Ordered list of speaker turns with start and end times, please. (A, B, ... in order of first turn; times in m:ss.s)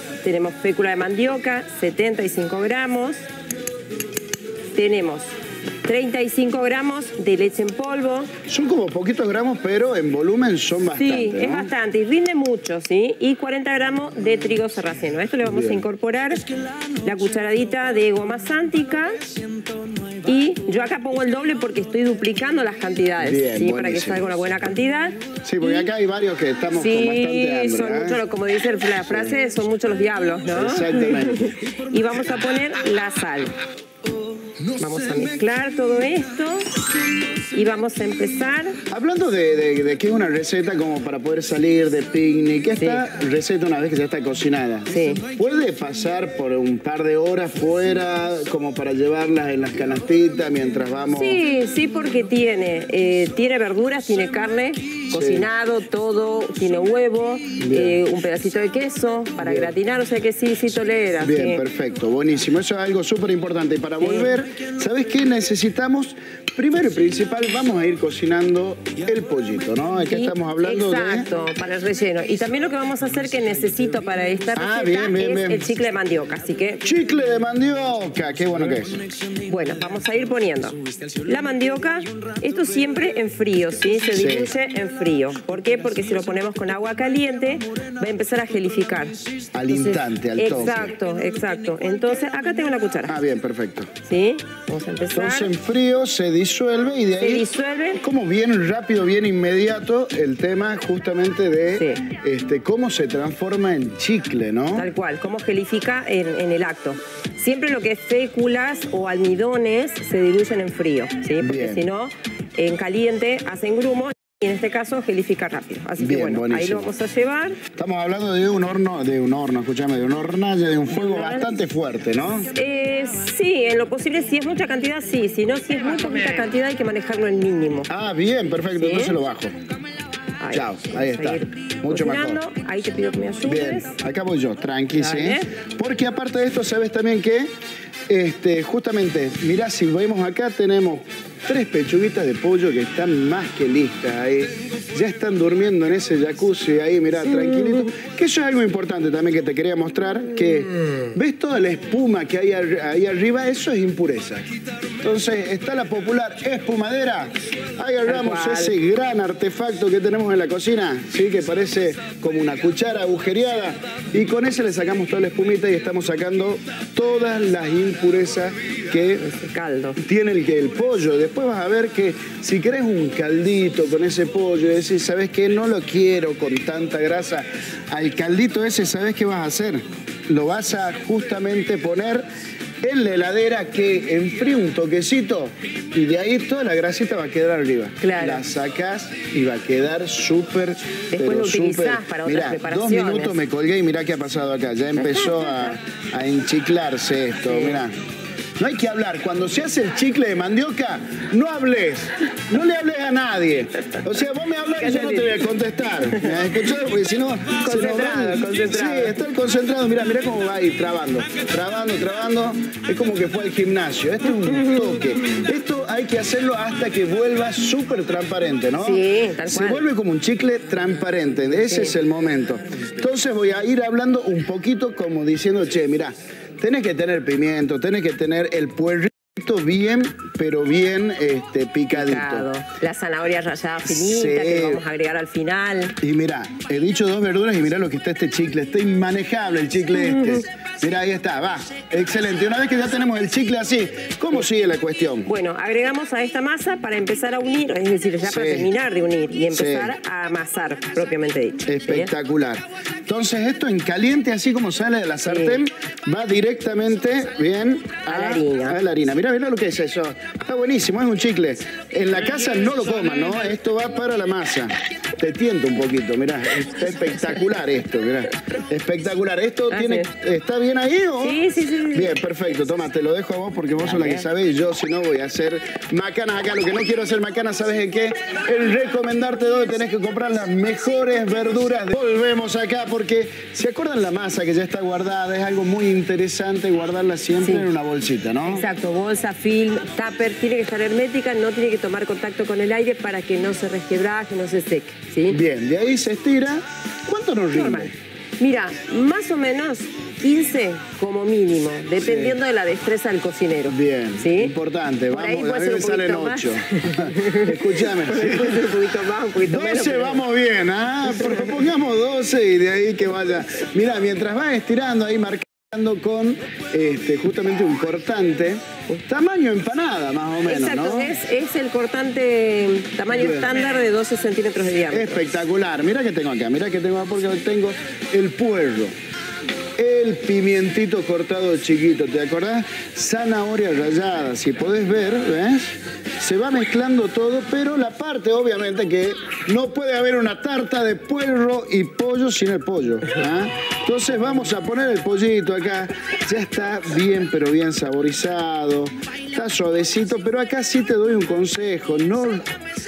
0:00.2-0:03.2 A
0:04.7-0:05.3 A
0:05.8-0:08.3 A
0:08.5-0:11.7 B
0:10.9-0:19.1 A
0:15.4-0:15.8 B
0:20.2-0:25.9 A
0:23.2-0:24.3 B
0:25.4-0:28.2 B
0:26.7-0:33.5 A
0:29.0-0:29.4 B
0:30.5-0:31.6 B
0:34.7-0:36.8 A
0:37.5-0:38.8 A
0:38.9-0:51.4 B
0:44.9-0:45.2 A
0:51.1-1:01.6 A
0:55.1-0:55.5 B
0:57.6-0:58.0 B
0:59.4-0:59.7 B
1:01.2-1:11.3 B
1:04.0-1:04.4 A
1:10.1-1:16.8 A
1:14.5-1:15.7 B
1:16.8-1:19.0 B
1:19.4-1:33.2 A
1:24.1-1:24.5 B
1:29.5-1:30.9 B
1:33.0-1:33.9 B
1:34.0-1:35.5 A
1:35.1-1:37.5 B
1:37.2-1:38.0 A
1:38.0-1:44.9 B
1:41.8-1:42.0 A
1:44.7-1:57.6 A
1:51.4-1:51.8 B
1:56.0-1:56.9 B
1:57.7-2:02.5 B
2:00.9-2:01.5 A
2:02.5-2:07.9 A
2:07.9-2:09.5 B
2:08.7-2:09.2 A
2:10.4-2:13.9 A
2:10.5-2:12.4 B
2:13.4-2:17.5 B
2:14.9-2:15.5 A
2:18.1-2:49.2 B
2:27.2-2:27.9 A
2:30.8-2:31.1 A
2:38.0-2:38.7 A
2:49.2-2:50.0 A
2:50.0-3:02.2 B
3:02.8-3:18.0 B
3:08.0-3:08.4 A
3:11.1-3:13.4 A
3:15.0-3:15.7 A
3:17.4-3:17.8 A
3:18.6-3:52.5 B
3:24.8-3:25.5 A
3:27.6-3:29.2 A
3:34.4-3:35.0 A
3:38.8-3:39.8 A
3:41.6-3:42.0 A
3:51.9-3:56.0 A
3:53.8-3:54.8 B
3:56.0-4:05.3 B
3:59.9-4:00.4 A
4:05.2-4:12.1 A
4:08.2-4:08.7 B
4:09.5-4:09.9 B
4:11.7-4:48.7 B
4:15.2-4:15.6 A
4:18.1-4:18.8 A
4:29.7-4:30.1 A
4:31.2-4:32.1 A
4:33.8-4:34.2 A
4:47.4-4:47.7 A
4:48.4-4:55.4 A
4:55.3-4:57.9 B
4:57.5-5:04.5 A
5:02.0-5:02.4 B
5:03.7-5:08.8 B
5:05.1-5:10.2 A
5:09.4-5:21.1 B
5:11.1-5:11.6 A
5:20.5-5:25.2 A
5:23.2-5:23.5 B
5:24.9-5:28.9 B
5:29.8-5:52.5 B